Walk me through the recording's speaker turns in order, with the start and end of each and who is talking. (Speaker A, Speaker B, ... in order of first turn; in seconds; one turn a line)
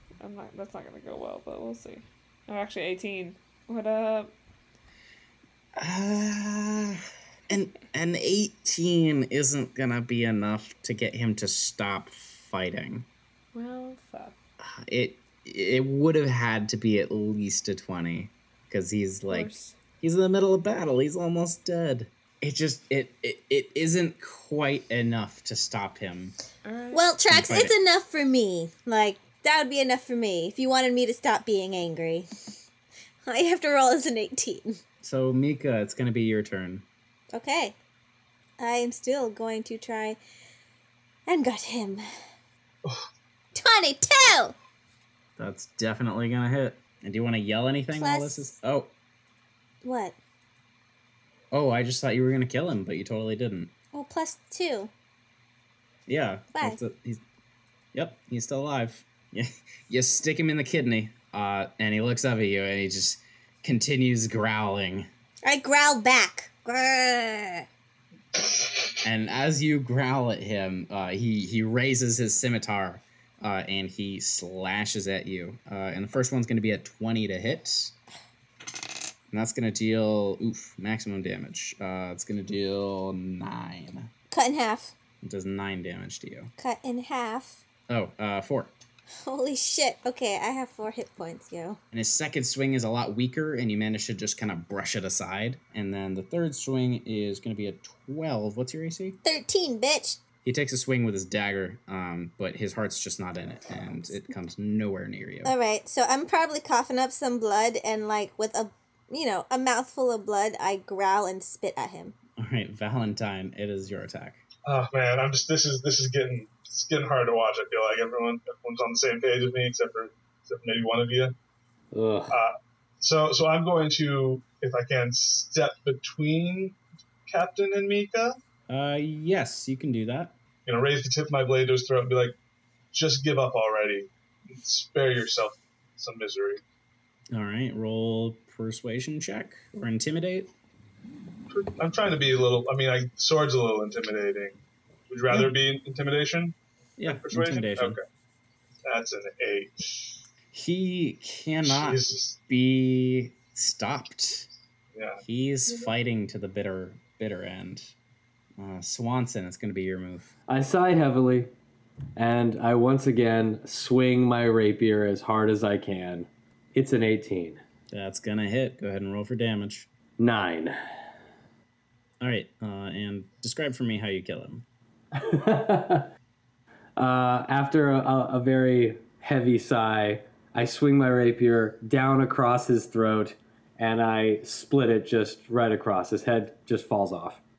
Speaker A: 0.2-4.3
Speaker B: 5.8-13.1
Speaker A: 13.5-14.3
Speaker B: 14.6-26.3
Speaker A: 19.3-19.8
Speaker A: 26.6-27.1
Speaker C: 26.9-32.3
Speaker B: 27.3-27.7
Speaker C: 33.2-34.8
Speaker B: 35.0-36.9
Speaker C: 37.3-37.7
Speaker C: 38.6-40.2
Speaker C: 41.3-42.0
Speaker C: 43.5-44.5
Speaker B: 45.4-48.9
Speaker C: 47.9-48.5
Speaker C: 49.8-50.2
Speaker B: 51.5-53.7
Speaker C: 53.9-54.9
Speaker B: 56.1-57.2
Speaker C: 56.5-56.8
Speaker B: 57.9-65.1
Speaker C: 65.4-67.7
Speaker B: 69.0-77.9
Speaker B: 79.3-84.1
Speaker C: 84.3-84.9
Speaker B: 85.2-86.5
Speaker C: 86.6-87.6
Speaker B: 87.9-88.7
Speaker C: 89.2-91.8
Speaker B: 91.9-99.2
Speaker C: 99.2-100.2
Speaker B: 100.4-105.5
Speaker C: 105.4-112.1
Speaker B: 112.4-114.4
Speaker D: 114.7-121.3
Speaker E: 121.9-122.3
Speaker D: 122.3-128.4
Speaker B: 128.7-130.3
Speaker D: 130.7-132.3
Speaker D: 132.9-136.6
Speaker B: 137.3-140.5
Speaker D: 141.5-148.0
Speaker B: 147.0-148.0
Speaker D: 148.8-150.2
Speaker B: 150.5-154.5
Speaker D: 151.6-152.4
Speaker D: 154.9-155.2
Speaker B: 155.2-157.9
Speaker B: 158.6-160.3
Speaker E: 160.5-161.5
Speaker E: 162.2-167.6
Speaker B: 167.9-169.9
Speaker E: 170.2-170.8
Speaker B: 172.2-174.7
Speaker E: 175.1-176.1
Speaker E: 177.0-187.4